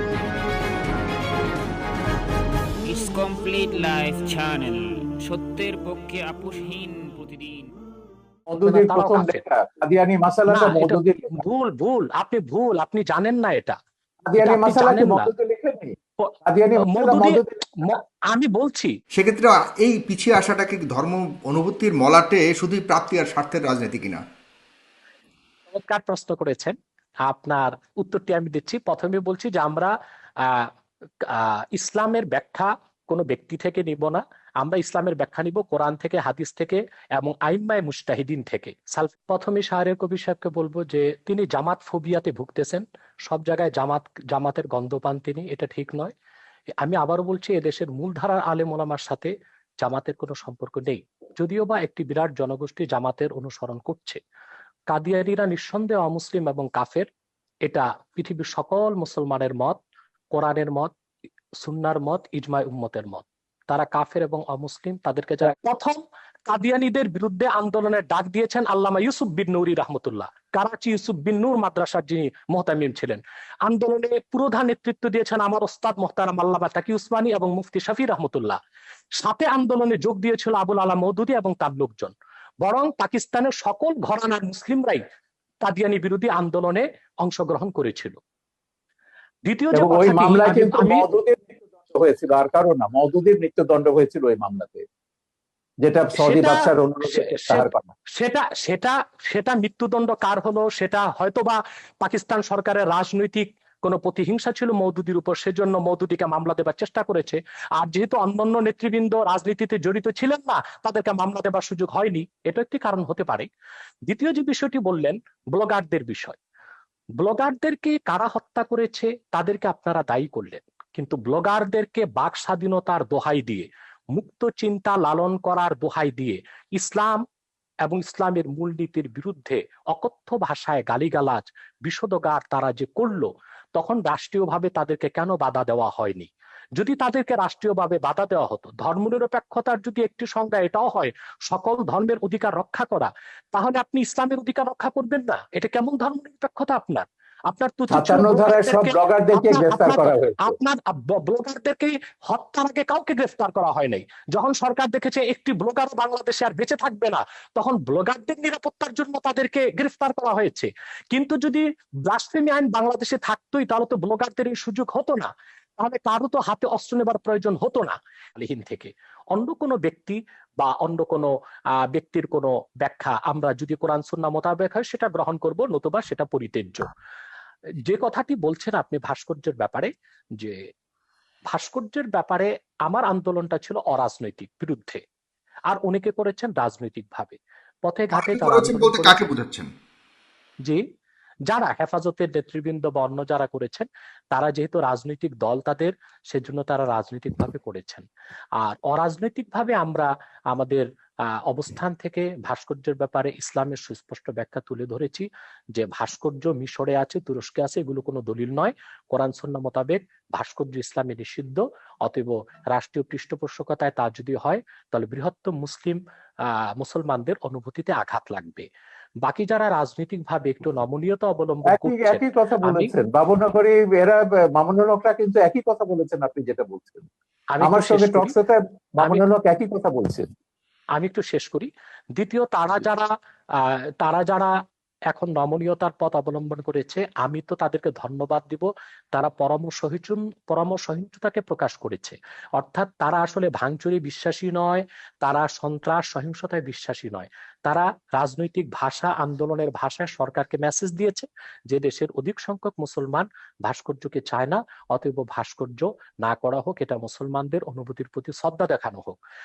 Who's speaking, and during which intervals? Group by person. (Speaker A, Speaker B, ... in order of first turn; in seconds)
Speaker A: 2.8-7.7
Speaker B: 8.5-11.4, 14.2-15.9, 16.4-17.6, 89.7-94.8, 95.8-97.9, 147.9-150.6, 221.7-227.1, 227.6-230.3
Speaker C: 8.6-9.4, 10.5-13.8, 14.4-15.3, 16.2-18.9, 25.7-26.8, 27.3-30.7, 31.2-46.1, 46.8-49.3, 49.8-54.2, 54.9-57.1, 57.6-59.8, 60.3-60.9, 61.6-78.6, 79.2-85.0, 85.6-88.2, 89.4-91.1, 96.2-113.5, 114.1-116.4, 117.2-127.2, 127.8-171.3, 171.9-176.9, 177.8-180.5, 181.5-185.0, 185.7-189.3, 191.5-198.0, 198.6-200.8, 201.5-218.6, 219.2-222.9, 227.5-228.3, 230.9-233.1, 233.6-234.5, 235.1-259.2
Speaker D: 19.1-24.2, 188.1-189.7